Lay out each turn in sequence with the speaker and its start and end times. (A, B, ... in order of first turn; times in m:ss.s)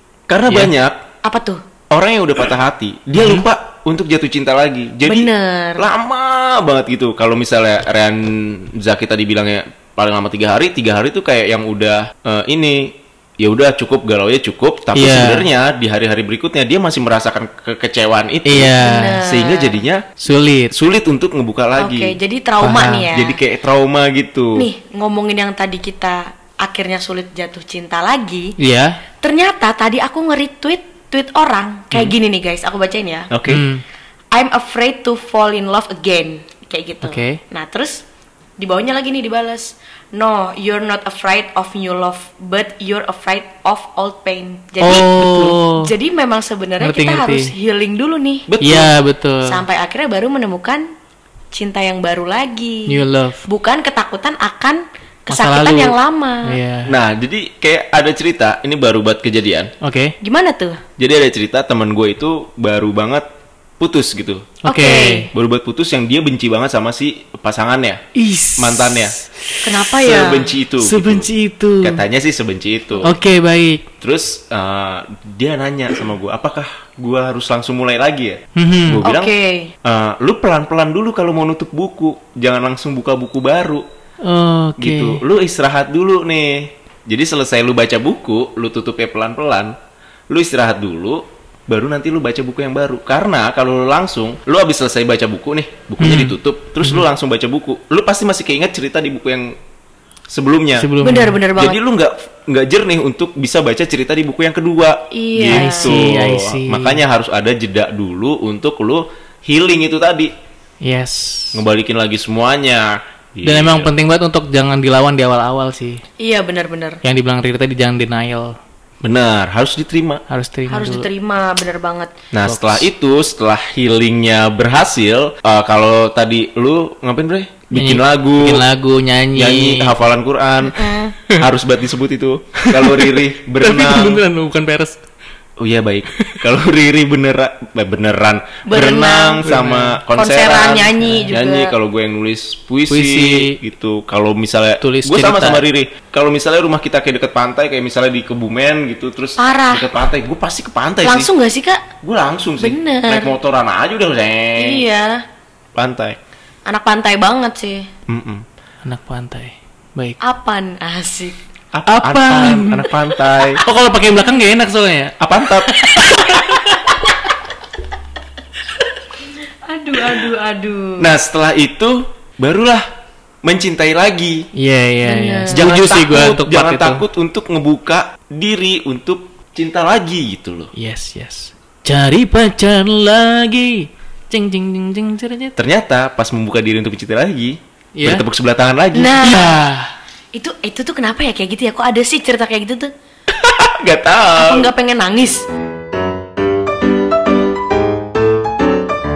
0:00.3-0:01.0 A
0:01.2-0:01.6 B
0:01.9-0:20.1 A
0:03.2-0:03.4 C
0:05.0-0:05.8 B
0:14.9-0:15.5 C
0:18.4-0:19.2 C
0:18.8-0:19.8 B
0:20.2-0:20.7 C
0:20.7-0:22.2 A
0:21.8-0:23.4 B
0:22.6-0:23.1 C
0:23.1-0:24.7 A
0:24.6-0:28.6 B
0:28.6-0:29.0 C
0:29.2-0:33.3 B
0:33.3-0:33.6 A
0:33.5-0:33.8 C
0:34.3-0:38.0 B
0:37.0-0:37.4 C
0:38.6-0:48.5 B
0:44.8-0:45.9 C
0:46.8-0:47.5 C
0:48.5-0:48.9 A
0:48.6-0:49.6 C
0:49.4-0:50.9 B
0:51.5-0:56.6 B
0:52.9-0:53.5 C
0:55.3-0:56.9 C
0:56.8-0:59.7 A
0:59.8-1:00.2 C
1:00.2-1:00.8 B
1:01.0-1:03.3 A
1:03.8-1:04.6 A
1:04.6-1:05.3 C
1:04.6-1:05.3 B
1:05.3-1:08.0 A
1:08.1-1:09.9 C
1:08.6-1:09.2 A
1:09.6-1:10.5 B
1:10.0-1:11.3 A
1:10.8-1:12.0 C
1:11.8-1:13.1 A
1:13.0-1:13.9 C
1:14.0-1:19.3 A
1:18.5-1:19.1 C
1:19.0-1:19.7 B
1:19.8-1:23.8 A
1:24.2-1:25.2 C
1:24.8-1:29.7 A
1:30.3-1:39.6 A
1:36.0-1:37.0 C
1:40.3-1:40.9 A
1:40.8-1:41.4 C
1:41.0-1:41.8 B
1:41.5-1:50.3 A
1:45.1-1:46.0 B
1:45.4-1:47.0 C
1:50.8-1:51.6 C
1:51.5-1:53.9 A
1:53.4-1:56.0 C
1:56.2-1:57.0 B
1:57.0-1:58.5 C
1:59.0-2:00.2 A
2:00.3-2:01.1 C
2:00.7-2:02.1 B
2:02.3-2:08.6 A
2:02.4-2:02.8 C
2:07.7-2:09.9 C
2:09.3-2:14.2 A
2:10.7-2:11.1 B
2:12.7-2:15.0 C
2:15.6-2:31.3 A
2:18.7-2:19.5 B
2:19.4-2:20.0 C
2:20.1-2:21.7 B
2:21.0-2:21.3 C
2:22.9-2:23.6 C
2:24.8-2:25.6 C
2:29.4-2:29.9 B
2:31.0-2:31.8 B
2:32.0-2:34.8 A
2:32.6-2:33.3 B
2:34.6-2:35.2 B
2:35.7-2:36.2 A
2:36.6-2:37.9 B
2:38.1-2:38.4 A
2:38.8-2:40.2 C
2:40.2-2:41.4 B
2:41.7-2:43.6 A
2:41.9-2:47.0 C
2:45.2-2:46.5 A
2:49.6-2:51.1 B
2:51.0-2:52.8 A
2:53.4-2:54.5 A
2:54.5-2:57.0 C
2:55.0-2:55.7 B
2:55.5-3:00.7 A
3:00.7-3:05.5 C
3:05.6-3:09.4 A
3:08.0-3:08.2 C
3:08.9-3:09.6 B
3:09.2-3:09.9 C
3:10.3-3:12.9 B
3:13.3-3:14.7 A
3:14.4-3:15.4 B